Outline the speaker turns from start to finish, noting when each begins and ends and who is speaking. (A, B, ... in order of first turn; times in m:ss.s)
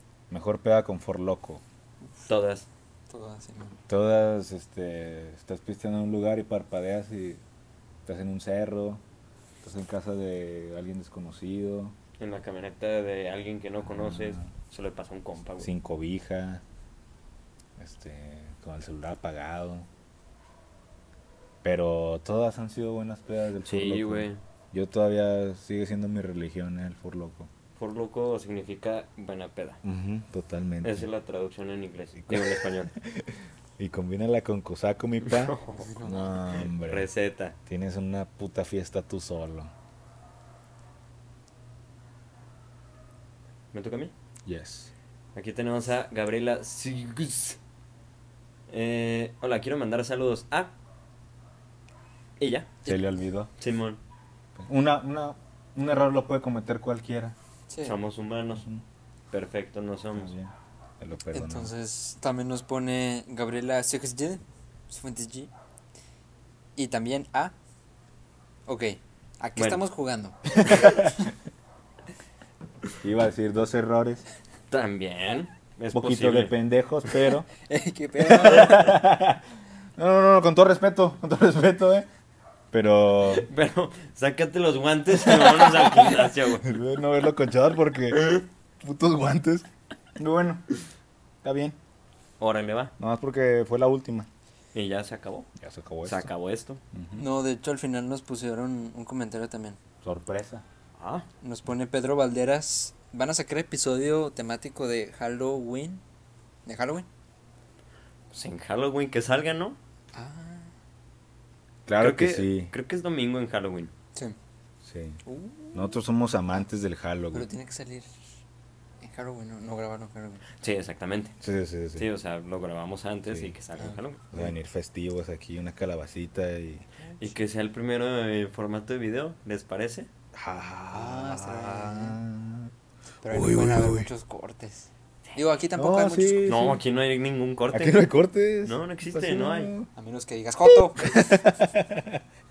0:00.3-0:01.6 A
0:02.3-0:02.6 B
0:03.1-0:03.7 C
0:03.9-0:07.4 A
0:08.0-0:09.0 A
0:09.6-0:11.9 A
0:12.2-0:15.7 B
0:13.8-0:14.5 A
0:15.6-0:16.6 A
0:17.8-0:19.9 A
0:21.6-0:27.5 A
0:23.6-0:24.4 B
0:27.8-0:29.8 B
0:29.8-0:31.1 A
0:30.8-0:32.9 B
0:32.2-0:33.3 A
0:33.8-0:37.1 A
0:35.3-0:37.5 B
0:37.7-0:39.7 A
0:43.7-0:44.1 B
0:44.4-0:44.9 A
0:45.3-0:47.6 B
0:48.7-0:50.7 B
0:52.4-0:53.0 B
0:52.8-0:53.5 A
0:53.6-0:54.0 B
0:54.6-0:57.3 A
0:57.7-0:58.0 C
0:57.8-0:58.6 B
0:58.5-0:58.8 A
0:59.3-1:00.3 B
1:00.1-1:01.7 A
1:01.3-1:05.5 C
1:06.8-1:07.5 C
1:08.7-1:11.2 C
1:10.6-1:11.1 A
1:13.0-1:14.2 A
1:14.7-1:16.5 B
1:15.9-1:17.4 A
1:17.6-1:19.0 C
1:18.3-1:19.4 A
1:18.4-1:18.9 B
1:20.0-1:22.0 A
1:22.7-1:23.5 A
1:23.3-1:26.7 B
1:26.6-1:29.6 A
1:28.1-1:28.4 B
1:30.2-1:30.6 A
1:31.4-1:31.8 A
1:32.4-1:32.9 B
1:33.0-1:34.3 A
1:34.7-1:35.5 B
1:35.6-1:36.3 A
1:36.0-1:36.8 B
1:36.9-1:37.2 A
1:37.2-1:39.8 C
1:40.0-1:40.6 A
1:41.0-1:41.3 B
1:41.4-1:46.0 C
1:46.6-1:47.1 C
1:48.3-1:49.8 B
1:50.1-1:50.7 C
1:51.8-1:52.7 A
1:52.0-1:53.9 B
1:54.8-1:55.2 A
1:55.2-1:56.0 C
1:55.7-1:57.5 A
1:57.3-1:58.1 C
1:59.0-2:00.4 C
2:00.6-2:01.3 B
2:01.4-2:02.1 A
2:02.0-2:04.2 B
2:03.3-2:03.5 A
2:03.8-2:04.5 C
2:04.3-2:06.8 A
2:07.0-2:07.3 C
2:07.2-2:10.1 B
2:10.3-2:12.7 A
2:10.9-2:12.2 C
2:13.2-2:16.5 C
2:13.3-2:14.1 A
2:15.8-2:16.8 A
2:16.4-2:18.1 B
2:17.7-2:19.9 A
2:18.6-2:19.7 B
2:19.9-2:21.5 C
2:21.0-2:22.2 A